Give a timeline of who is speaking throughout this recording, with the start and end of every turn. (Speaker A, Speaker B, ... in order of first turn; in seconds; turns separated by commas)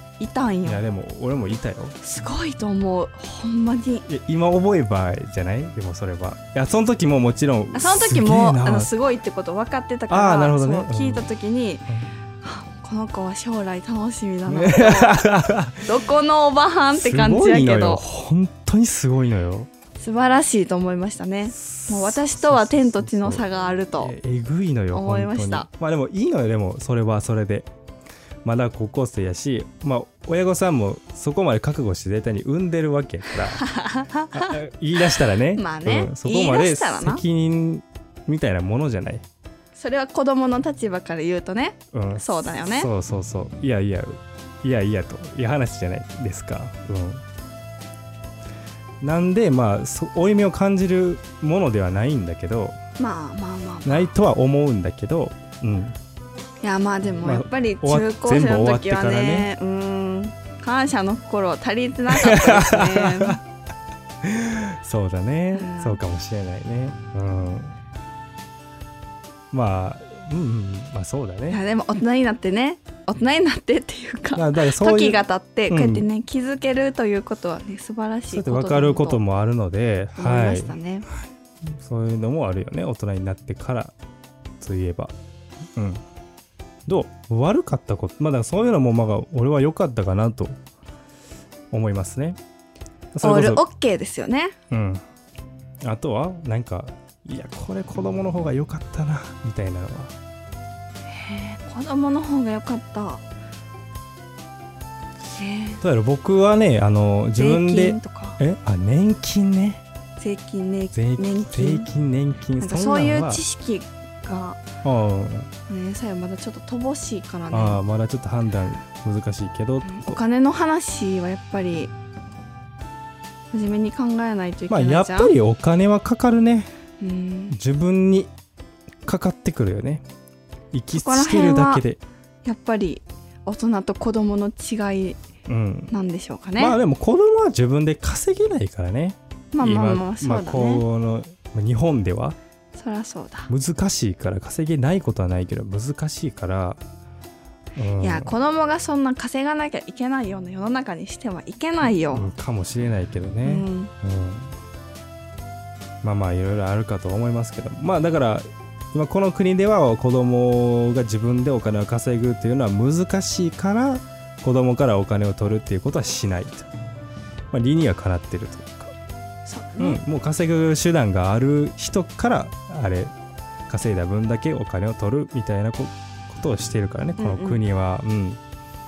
Speaker A: 0.2-0.8, Speaker B: 0.7-2.0, Speaker A: 2.0-4.0, Speaker B: 4.1-8.9, Speaker A: 7.7-11.8, Speaker B: 10.1-11.3, Speaker A: 12.4-15.2, Speaker B: 14.5-15.9, Speaker A: 15.8-18.0, Speaker B: 16.9-19.7, Speaker A: 20.0-24.1, Speaker B: 21.5-27.7, Speaker A: 24.9-25.7, Speaker B: 28.4-33.6, Speaker A: 33.5-34.6, Speaker B: 34.3-39.2, Speaker A: 35.5-37.2, Speaker A: 39.8-42.9, Speaker B: 41.9-47.2, Speaker B: 49.0-52.8, Speaker A: 53.0-54.1, Speaker B: 53.8-56.0, Speaker A: 56.6-63.4, Speaker B: 57.2-59.5, Speaker B: 62.1-63.4, Speaker B: 64.2-67.7, Speaker A: 65.5-66.0, Speaker B: 69.5-71.6, Speaker A: 71.5-79.2, Speaker B: 74.3-76.0, Speaker B: 78.3-83.9, Speaker A: 80.2-81.1, Speaker B: 84.6-85.1, Speaker B: 85.7-86.0, Speaker B: 86.9-90.6, Speaker B: 91.7-92.4, Speaker B: 93.1-93.6, Speaker A: 93.2-94.5, Speaker B: 94.7-95.0, Speaker B: 95.8-100.1, Speaker A: 101.1-103.2, Speaker A: 105.4-105.8, Speaker B: 105.8-109.8, Speaker A: 107.3-108.4, Speaker A: 110.2-111.9, Speaker B: 110.9-113.4, Speaker A: 112.6-114.6, Speaker B: 114.8-115.5, Speaker A: 115.7-117.8, Speaker B: 117.5-120.2, Speaker A: 119.8-121.9, Speaker A: 123.5-125.3, Speaker B: 124.7-126.7, Speaker A: 127.0-127.6, Speaker B: 127.5-128.3, Speaker B: 129.1-130.0, Speaker B: 130.7-132.0, Speaker A: 130.9-131.8, Speaker A: 132.4-135.2, Speaker B: 135.4-135.9, Speaker A: 135.9-136.8, Speaker B: 136.6-142.4, Speaker A: 139.5-140.8, Speaker A: 142.7-143.5, Speaker B: 143.5-146.8, Speaker B: 147.8-148.3, Speaker A: 148.0-152.3, Speaker B: 152.1-154.5, Speaker A: 153.4-153.9, Speaker B: 156.0-166.7, Speaker B: 167.5-168.9, Speaker A: 169.4-170.0, Speaker B: 169.8-173.1, Speaker B: 173.7-178.4, Speaker A: 177.2-177.6